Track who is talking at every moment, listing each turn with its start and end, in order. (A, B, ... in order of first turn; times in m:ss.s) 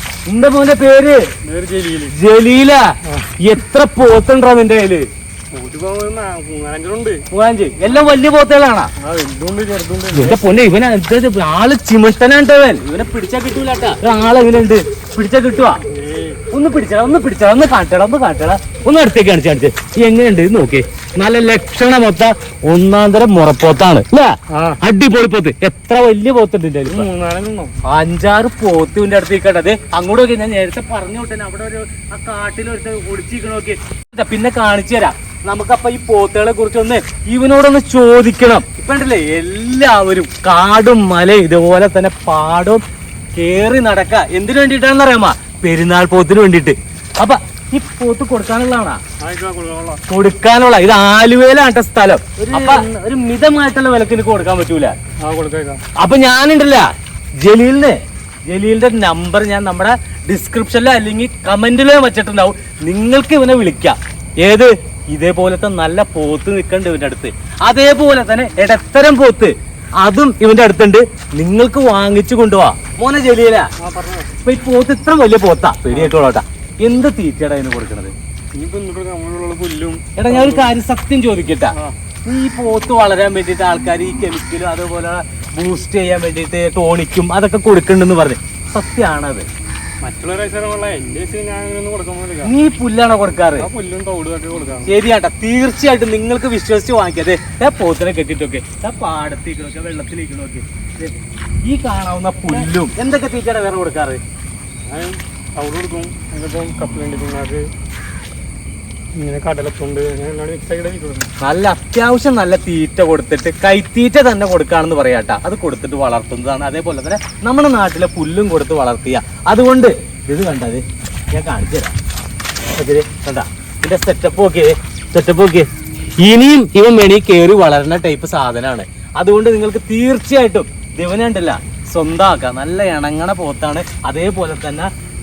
0:00.3-0:01.3 A
0:01.5-0:02.2 B
0:02.1-0:05.1 A
0:05.5-0:07.2 B
0:07.3-0:08.9 A
0:09.0-0:10.4 B
0:10.1-0:15.8 A
0:15.9-0:16.4 B
0:16.5-0:27.1 A
0:26.9-0:27.7 B
0:27.8-0:42.8 A
0:43.3-0:49.0 A
0:49.2-0:50.0 B
0:50.1-0:55.0 A
0:52.5-0:52.9 B
0:55.2-0:55.8 B
0:56.0-0:56.9 A
0:57.4-1:13.7 A
1:13.8-1:14.3 B
1:14.4-1:18.1 A
1:15.9-1:16.2 B
1:18.6-1:20.7 B
1:20.2-1:21.7 A
1:22.2-1:29.5 A
1:30.0-1:32.6 B
1:32.4-1:33.7 A
1:33.6-1:34.9 B
1:34.9-1:44.2 A
1:44.9-1:47.6 B
1:49.2-1:51.3 B
1:51.4-2:01.9 A
2:02.8-2:05.7 A
2:06.2-2:14.9 A